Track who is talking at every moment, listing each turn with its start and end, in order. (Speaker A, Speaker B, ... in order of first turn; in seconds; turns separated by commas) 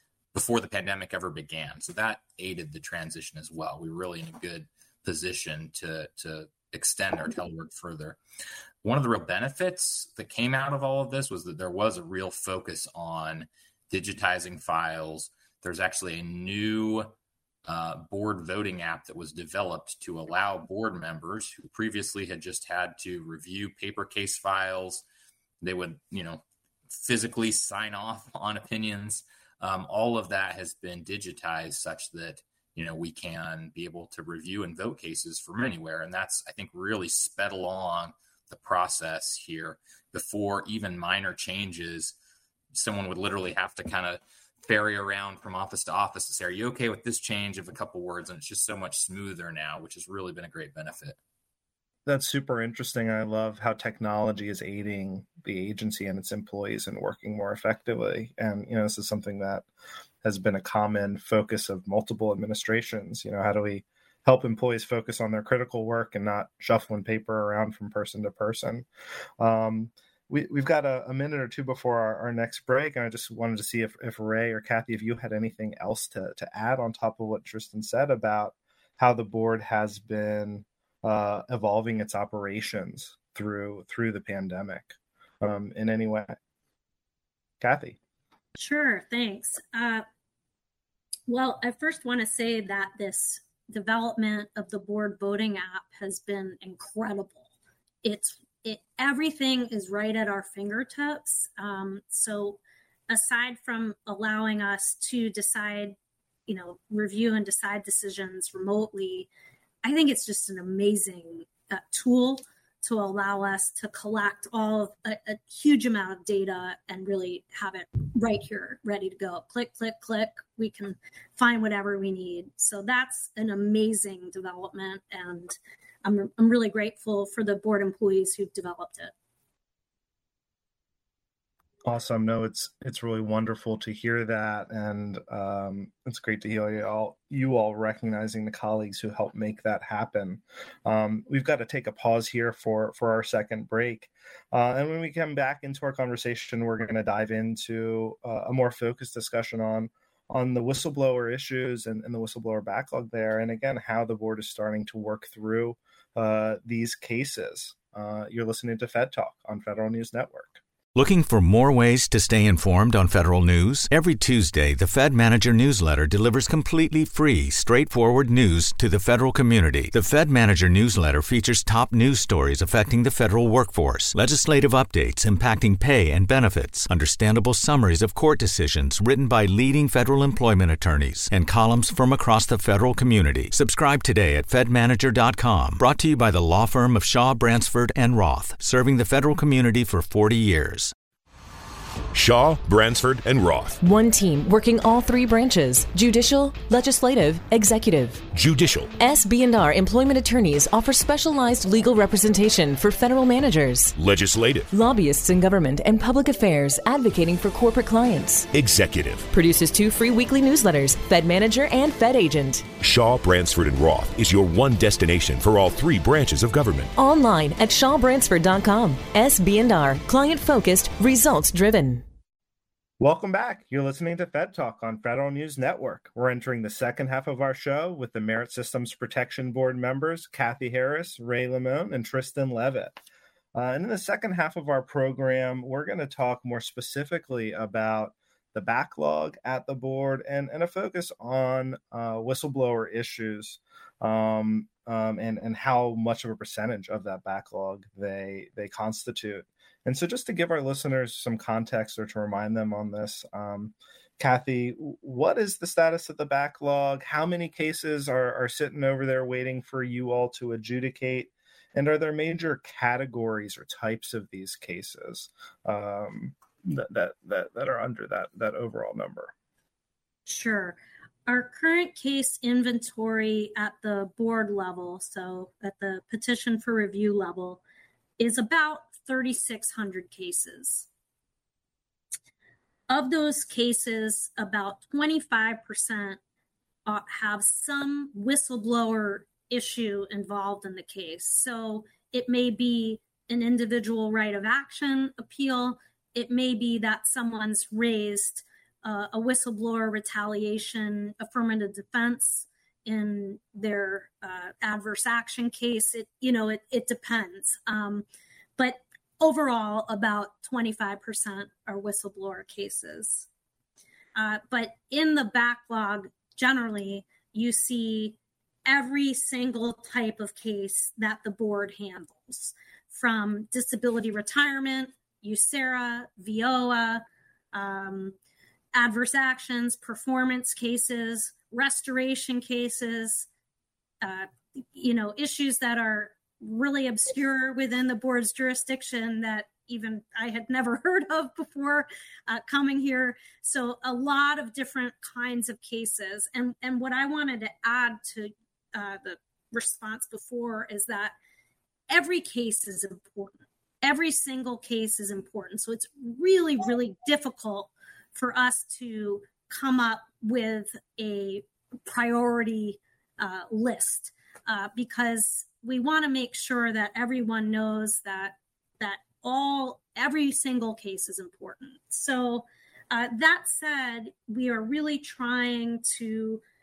Speaker A: 0.3-8.2, Speaker A: 8.8-17.1, Speaker A: 17.6-25.0, Speaker A: 25.6-42.1, Speaker A: 42.7-51.2, Speaker B: 52.1-59.7, Speaker B: 60.2-68.9, Speaker B: 69.4-86.4, Speaker B: 87.6-88.0, Speaker C: 88.6-90.0, Speaker C: 91.3-97.5, Speaker C: 98.0-106.0, Speaker C: 106.5-109.3, Speaker C: 109.8-129.1, Speaker B: 131.8-160.6, Speaker D: 160.9-190.9, Speaker E: 192.1-193.8, Speaker F: 193.8-198.3, Speaker E: 198.3-198.9, Speaker F: 199.0-203.9, Speaker E: 204.0-204.7, Speaker F: 204.7-208.5, Speaker E: 208.5-209.3, Speaker F: 209.3-212.7, Speaker E: 212.8-216.9, Speaker F: 217.0-222.0, Speaker B: 223.0-233.0, Speaker B: 233.5-269.3, Speaker C: 270.3-277.6, Speaker C: 278.2-280.9, Speaker C: 282.9-286.2, Speaker C: 286.9-308.1, Speaker C: 308.6-313.3, Speaker C: 314.1-328.1, Speaker C: 328.7-333.3, Speaker C: 334.0-351.1, Speaker C: 351.9-376.4